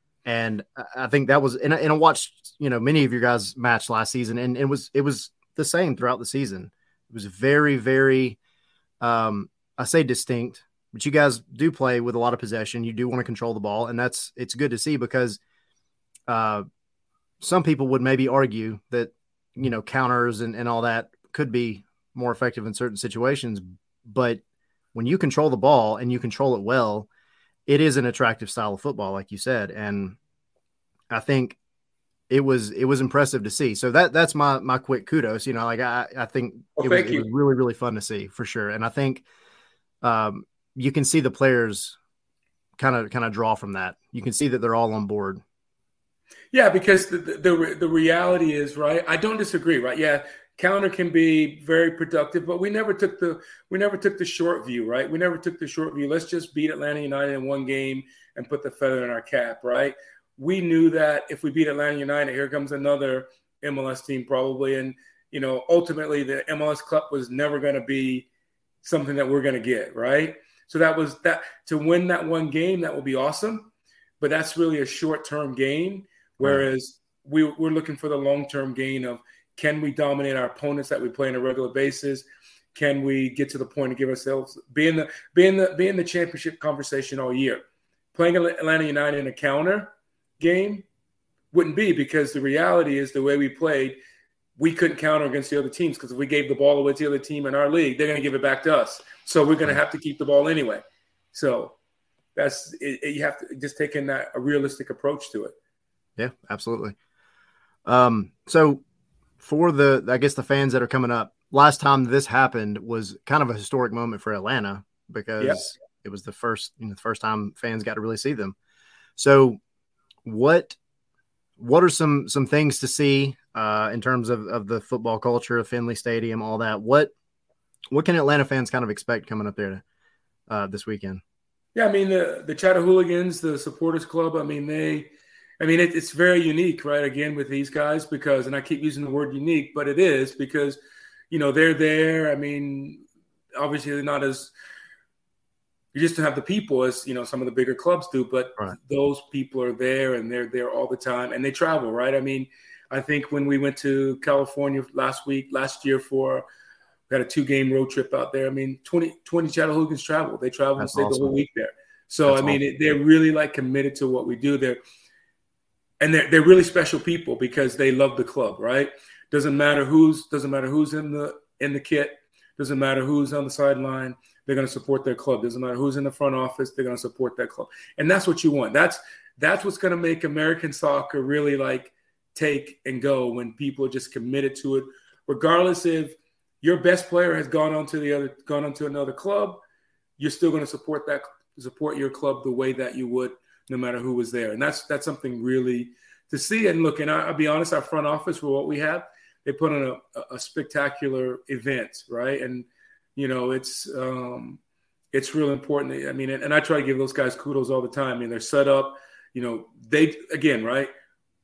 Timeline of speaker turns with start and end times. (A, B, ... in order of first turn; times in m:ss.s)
0:00.2-0:08.4 A
0:09.0-0:15.4 A
0:16.3-0:16.6 A
0:17.4-0:24.4 A
0:24.9-0:27.1 A
0:27.7-0:30.2 A
0:31.1-0:31.6 A
0:32.3-0:39.2 A
0:36.8-0:37.2 B
0:40.0-0:42.0 A
0:42.8-0:45.4 A
0:46.5-1:08.3 B
1:08.8-1:30.8 B
1:16.4-1:16.7 A
1:31.5-1:34.0 B
1:34.6-1:41.8 B
1:42.4-1:45.5 B
1:46.2-1:47.0 A
1:47.8-1:48.8 A
1:49.4-1:58.6 A
1:59.2-1:59.6 A
2:00.2-2:00.8 A
2:01.6-2:07.1 A
2:07.9-2:09.8 A
2:10.5-2:11.2 A
2:11.7-2:15.1 B
2:15.6-2:20.8 B
2:21.3-2:23.0 B
2:23.6-2:24.5 B
2:25.9-2:36.4 B
2:37.1-2:44.8 B
2:40.8-2:41.4 A
2:42.2-2:42.6 A
2:46.0-3:09.6 B
3:10.2-3:24.6 B
3:25.1-3:30.9 B